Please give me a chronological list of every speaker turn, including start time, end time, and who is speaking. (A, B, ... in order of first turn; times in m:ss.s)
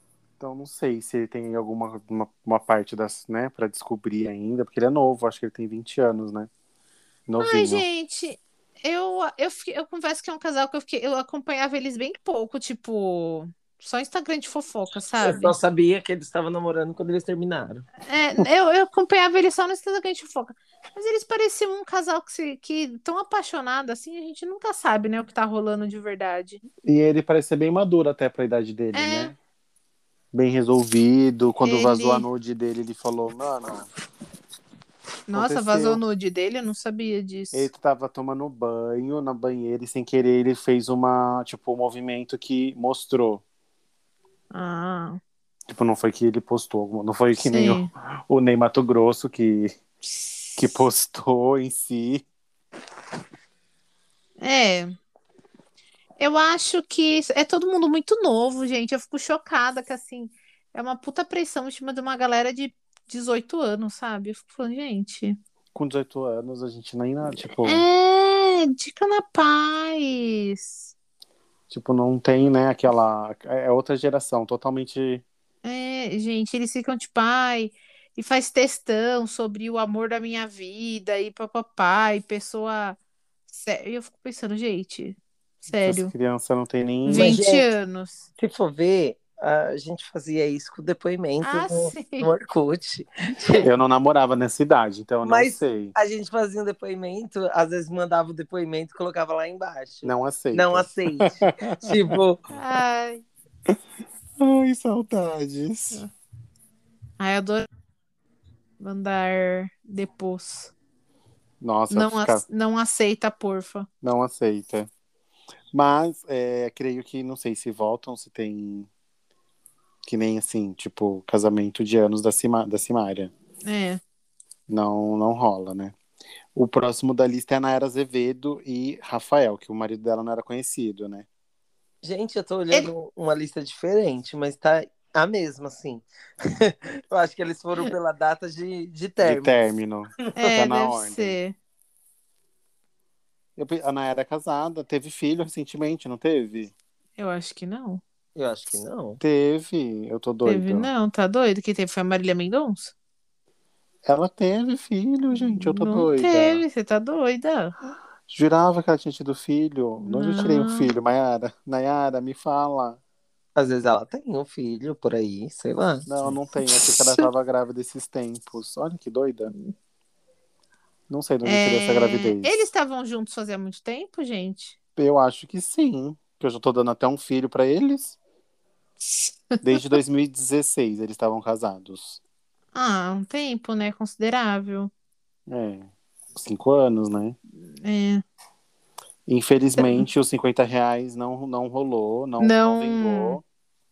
0:00.4-0:06.5 A
0:07.3-0:07.8 A
0:07.4-0:15.6 B
0:15.2-0:17.8 C
0:18.0-0:26.6 B
0:26.8-0:29.3 A
0:28.9-0:29.3 B
0:30.3-0:33.9 A
0:31.6-0:32.2 B
0:35.3-0:37.7 B
0:35.3-0:36.0 A
0:37.5-0:43.4 A
0:44.5-0:45.2 B
0:45.7-0:49.7 A
0:47.4-0:47.9 B
0:50.6-0:52.2 A
0:54.4-0:55.0 B
0:56.2-1:05.4 B
1:05.7-1:07.8 A
1:07.5-1:10.9 B
1:11.7-1:15.2 A
1:15.6-1:26.1 B
1:25.7-1:27.4 A
1:27.0-1:28.3 B
1:27.1-1:27.6 C
1:28.4-1:33.7 C
1:31.4-1:32.3 B
1:33.6-1:35.9 A
1:35.2-1:42.4 C
1:40.0-1:42.2 A
1:42.5-1:43.2 B
1:44.4-1:46.0 A
1:47.2-1:47.7 B
1:48.8-1:50.7 B
1:51.6-1:52.4 A
1:51.9-1:53.9 B
1:54.0-1:54.9 A
1:55.7-1:58.9 A
2:00.0-2:03.3 A
2:03.6-2:04.0 B
2:04.7-2:05.9 A
2:06.5-2:11.2 A
2:12.0-2:19.6 C
2:19.2-2:21.4 A
2:20.4-2:21.5 B
2:23.6-2:26.7 A
2:27.2-2:28.0 B
2:28.4-2:29.2 C
2:29.2-2:30.9 A
2:30.4-2:32.9 B
2:34.0-2:36.6 A
2:35.3-2:37.7 B
2:38.3-2:43.0 A
2:40.0-2:40.9 B
2:43.6-2:46.1 C
2:46.0-2:49.5 A
2:47.0-2:47.2 B
2:51.1-2:52.5 A
2:51.4-2:54.8 B
2:55.0-2:58.2 A
2:59.0-3:00.0 B
2:59.6-3:02.2 A
3:02.7-3:04.9 B
3:05.5-3:07.4 A
3:07.8-3:08.2 B
3:09.3-3:13.4 A
3:09.8-3:10.0 B
3:12.4-3:13.4 B